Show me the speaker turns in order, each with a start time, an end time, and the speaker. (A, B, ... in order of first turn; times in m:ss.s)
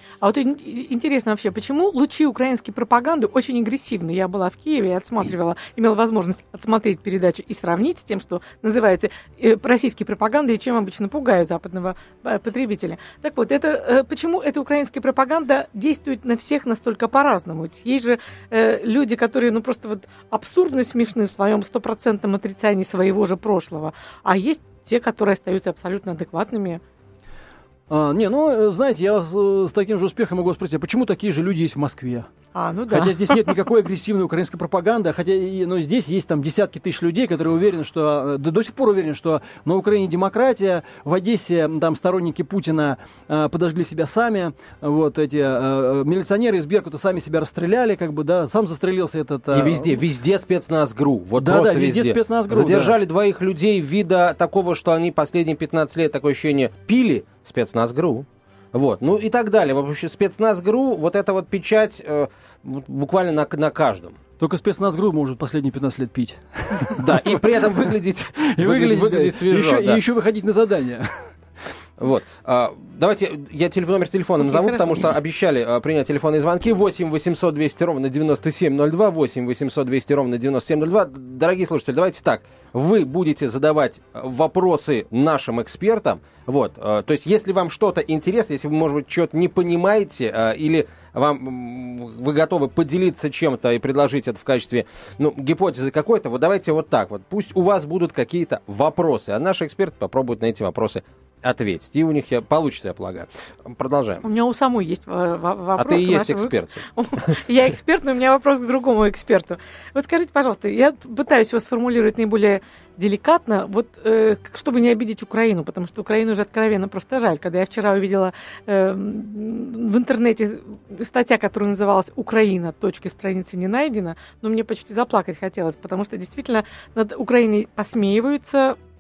0:00.2-0:26.8 A
0:27.9-0:32.3 B
0:32.5-0:33.4 A
0:32.9-0:50.0 B
0:49.5-1:04.2 C
0:51.4-0:53.0 B
1:04.4-1:07.9 B
1:07.0-1:10.0 C
1:08.4-1:11.2 B
1:12.0-1:44.2 C
1:14.4-1:15.0 A
1:44.2-2:08.8 A
1:45.8-1:46.8 C